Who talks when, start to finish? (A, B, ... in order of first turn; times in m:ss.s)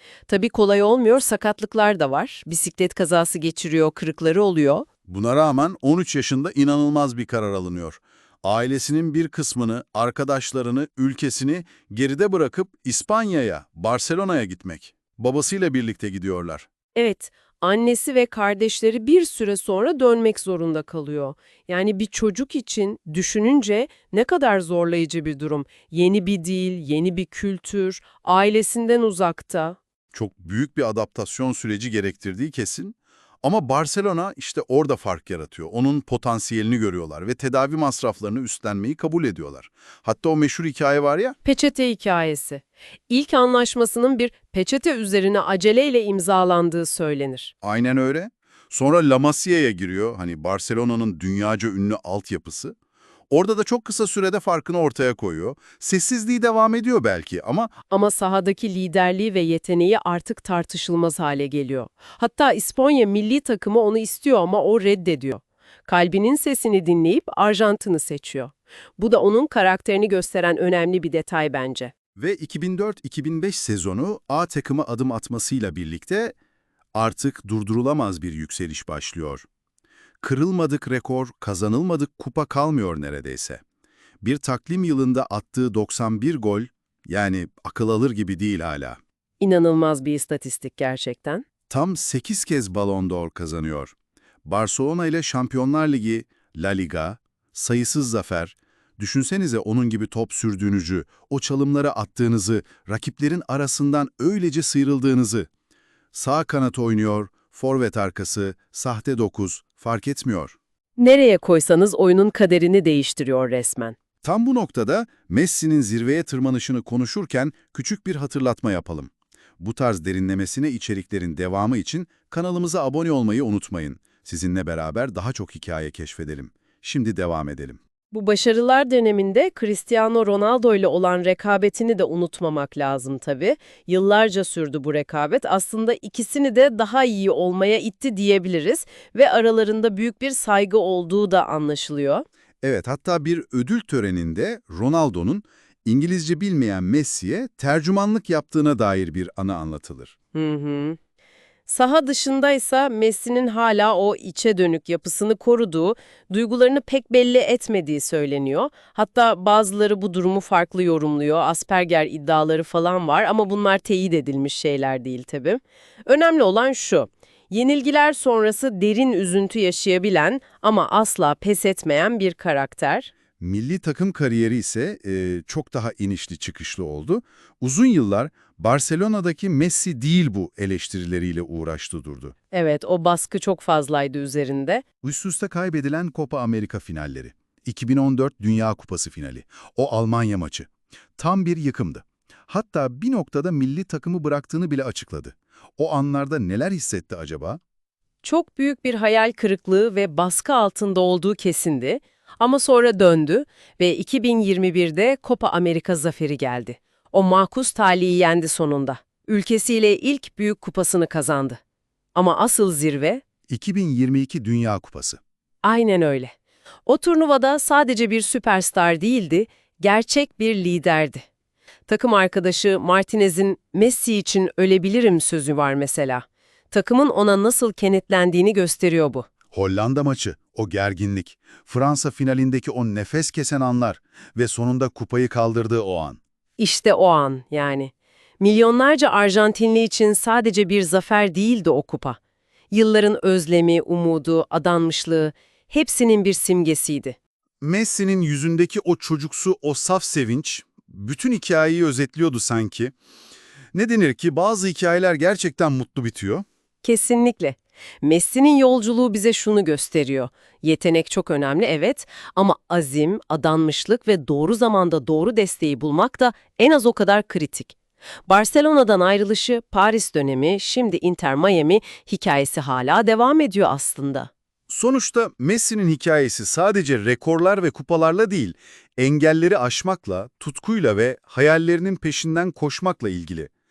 0:00.3-0:04.8 A
0:05.1-0:16.7 B
0:17.0-0:29.8 A
0:30.1-0:41.4 B
0:41.4-0:47.5 A
0:47.6-0:52.8 B
0:53.3-0:57.7 B
0:57.9-1:11.9 A
1:12.2-1:16.4 B
1:17.0-1:19.4 B
1:20.2-1:23.6 B
1:24.2-1:29.0 B
1:29.4-1:31.5 A
1:31.7-1:45.5 B
1:46.1-1:50.6 B
1:51.0-1:54.0 A
1:54.2-2:07.8 B
2:08.1-2:22.2 A
2:22.6-2:30.1 B
2:30.3-2:31.0 A
2:31.7-2:53.1 A
2:53.4-3:02.4 B
3:02.5-3:04.8 A
3:05.0-3:17.6 B
3:18.2-3:31.6 A
3:32.2-3:33.2 A
3:33.5-3:35.2 B
3:35.6-3:36.3 A
3:36.9-3:41.2 A
3:41.9-3:49.3 A
3:49.5-3:56.2 B
3:56.6-4:02.2 A
4:02.7-4:07.2 A
4:07.6-4:12.9 B
4:13.7-4:16.4 B
4:16.8-4:27.8 A
4:28.3-4:34.3 A
4:34.7-4:43.5 B